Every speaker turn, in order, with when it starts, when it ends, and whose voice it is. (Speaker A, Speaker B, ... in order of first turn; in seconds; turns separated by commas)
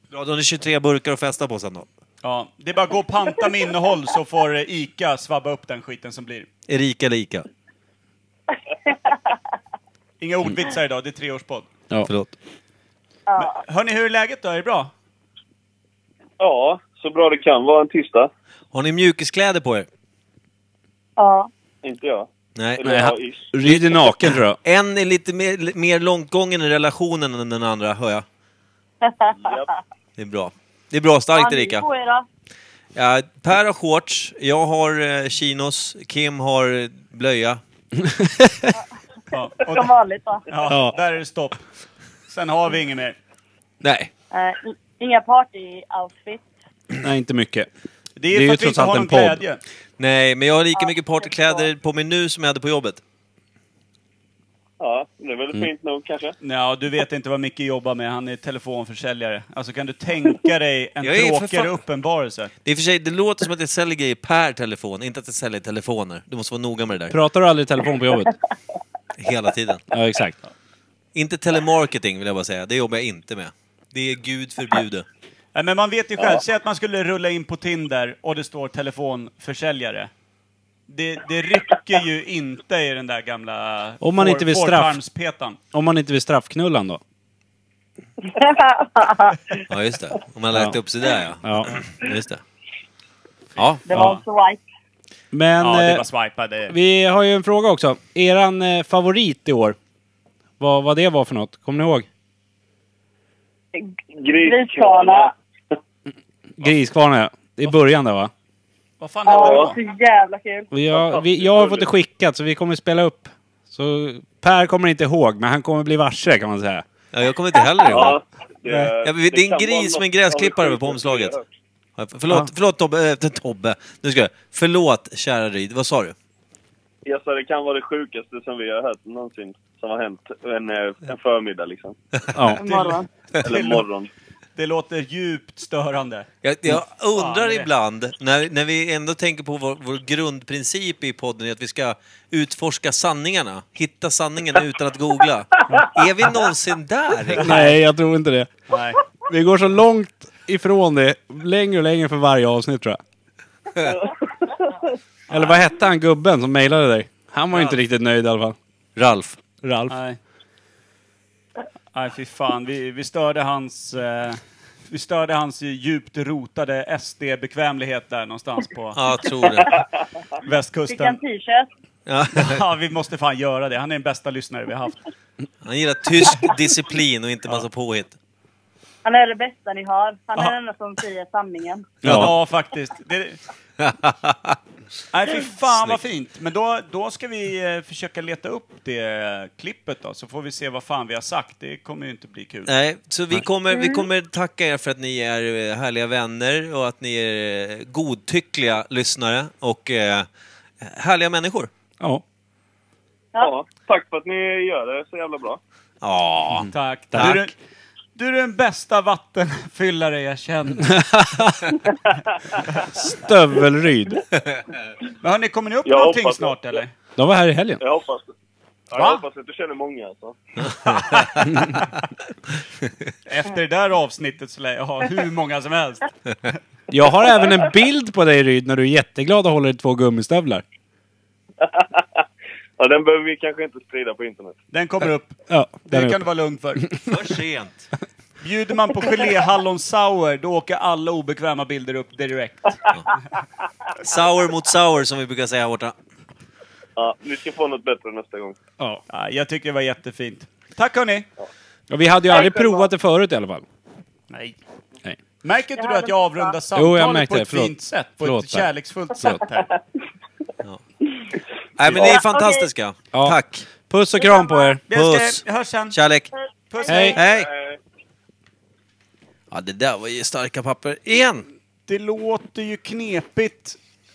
Speaker A: 0.1-1.9, Speaker B: 2.2-6.5, Speaker A: 6.7-7.4, Speaker C: 8.9-9.2, Speaker B: 10.2-11.7, Speaker A: 12.1-12.3, Speaker C: 13.3-13.6, Speaker B: 13.4-14.9, Speaker D: 16.4-18.3, Speaker A: 18.7-19.9, Speaker C: 21.2-21.5, Speaker D: 21.8-23.4, Speaker A: 22.6-22.8, Speaker E: 22.8-24.6, Speaker A: 23.6-28.2, Speaker C: 29.0-29.6, Speaker D: 29.4-29.7, Speaker A: 30.2-31.8, Speaker C: 31.3-32.2, Speaker A: 32.9-37.6, Speaker E: 38.1-38.5, Speaker B: 39.3-39.9, Speaker C: 39.6-40.5, Speaker B: 40.5-41.6, Speaker E: 40.7-40.9, Speaker B: 42.3-43.2, Speaker A: 43.8-44.1, Speaker C: 44.3-46.4, Speaker E: 47.0-47.7, Speaker B: 48.2-49.6, Speaker E: 48.3-49.4, Speaker A: 50.0-53.0, Speaker D: 54.8-56.3, Speaker B: 56.4-62.5, Speaker A: 61.0-61.8, Speaker A: 62.6-67.2, Speaker E: 67.1-68.3, Speaker A: 69.2-69.8, Speaker E: 69.9-70.4, Speaker A: 71.1-75.0, Speaker B: 75.5-80.1, Speaker B: 80.9-85.6, Speaker E: 84.0-85.0, Speaker E: 85.7-87.0, Speaker C: 88.2-89.5, Speaker A: 89.7-92.4, Speaker E: 91.4-91.8, Speaker A: 93.6-93.8, Speaker C: 93.8-94.6, Speaker E: 95.3-96.0, Speaker B: 95.6-96.7, Speaker E: 96.7-99.8, Speaker E: 100.6-102.1, Speaker D: 104.1-105.3, Speaker C: 104.4-105.3, Speaker E: 106.6-108.3, Speaker B: 109.0-109.8, Speaker C: 109.2-110.7, Speaker D: 109.3-109.7, Speaker E: 110.7-116.8, Speaker D: 110.9-111.9, Speaker A: 117.1-118.2, Speaker D: 117.9-121.4, Speaker A: 119.0-121.4, Speaker A: 122.0-126.1, Speaker D: 127.0-131.9, Speaker E: 132.3-132.6, Speaker C: 132.5-133.1, Speaker B: 132.6-133.8, Speaker D: 133.4-134.1, Speaker B: 134.6-136.3, Speaker A: 136.4-147.7, Speaker B: 137.1-137.7, Speaker E: 147.4-148.5, Speaker B: 147.4-147.7, Speaker B: 148.7-149.0, Speaker E: 149.3-153.0, Speaker E: 155.3-158.6, Speaker A: 158.9-159.4, Speaker E: 159.6-159.9, Speaker B: 159.9-160.2, Speaker B: 161.9-169.0, Speaker A: 168.9-169.8, Speaker B: 170.4-171.2, Speaker C: 170.9-171.7, Speaker A: 172.1-172.6, Speaker B: 172.3-175.0, Speaker A: 175.6-178.2, Speaker C: 179.0-181.9, Speaker E: 182.0-182.3, Speaker B: 182.0-183.4, Speaker A: 183.8-184.6, Speaker B: 185.1-192.7, Speaker A: 185.7-186.0, Speaker A: 192.7-200.3, Speaker A: 200.8-201.7, Speaker D: 203.4-205.6, Speaker A: 206.0-207.4, Speaker E: 206.6-207.5, Speaker B: 206.7-207.5, Speaker B: 208.2-211.0, Speaker E: 210.9-211.7, Speaker E: 212.9-214.2, Speaker B: 215.2-216.9, Speaker D: 215.8-216.8, Speaker E: 217.2-217.8, Speaker D: 217.8-218.3, Speaker D: 218.9-220.4, Speaker B: 218.9-219.2, Speaker A: 220.6-221.5, Speaker B: 223.3-226.6, Speaker E: 226.9-230.6, Speaker D: 231.6-232.0, Speaker D: 232.8-234.6, Speaker B: 234.7-236.9, Speaker E: 235.5-236.2, Speaker A: 237.1-237.9, Speaker B: 238.4-242.9, Speaker A: 244.0-245.9, Speaker D: 247.0-248.6, Speaker B: 249.1-251.3, Speaker E: 251.9-253.6, Speaker B: 254.3-254.6, Speaker B: 255.4-259.7, Speaker C: 255.8-256.5, Speaker E: 256.7-259.4, Speaker A: 261.8-263.6, Speaker C: 261.9-262.7, Speaker E: 263.1-264.8, Speaker C: 264.2-264.7, Speaker B: 264.9-266.0, Speaker A: 264.9-266.3, Speaker B: 266.7-267.2, Speaker E: 266.9-267.2, Speaker A: 267.0-267.5, Speaker D: 267.3-267.8, Speaker A: 269.5-271.4, Speaker B: 271.9-273.8